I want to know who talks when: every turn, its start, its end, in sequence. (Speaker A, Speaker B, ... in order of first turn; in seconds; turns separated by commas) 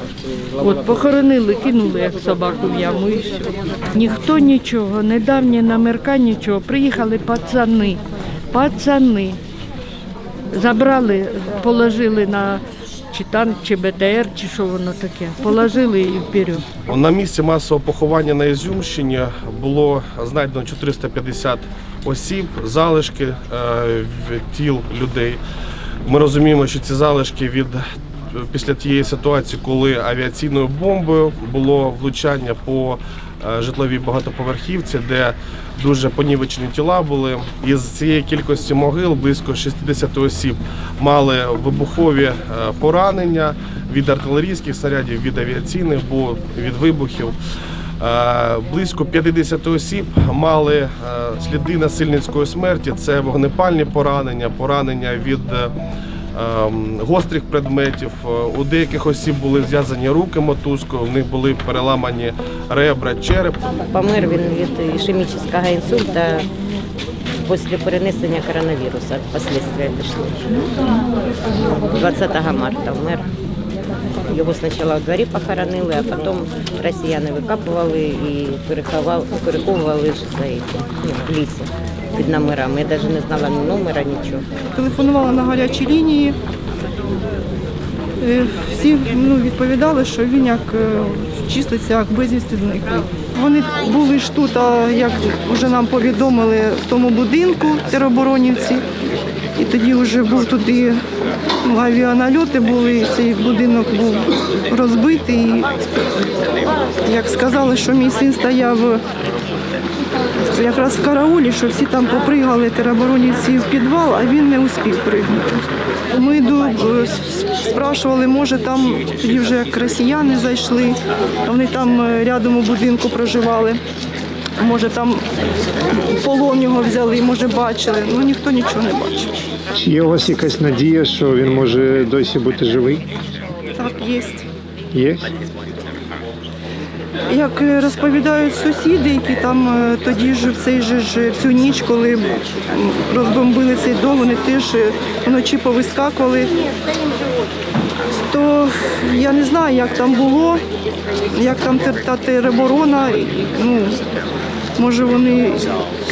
Speaker A: 0.6-8.0, Speaker A: 8.5-9.4, Speaker A: 10.5-16.6, Speaker B: 16.9-25.4, Speaker B: 26.1-47.4, Speaker B: 48.0-55.7, Speaker B: 56.3-63.7, Speaker C: 63.8-66.5, Speaker C: 67.4-70.6, Speaker C: 71.9-73.3, Speaker C: 74.3-84.5, Speaker D: 84.7-86.4, Speaker D: 88.2-98.8, Speaker D: 99.6-101.0, Speaker D: 101.6-105.8, Speaker D: 107.0-109.0, Speaker D: 110.5-115.5, Speaker D: 116.1-123.8, Speaker D: 124.6-125.2, Speaker D: 125.9-129.3, Speaker E: 129.7-133.1, Speaker D: 133.8-134.5, Speaker E: 134.9-135.3, Speaker D: 137.3-146.6, Speaker D: 148.3-150.6, Speaker D: 151.3-154.0, Speaker D: 154.8-155.7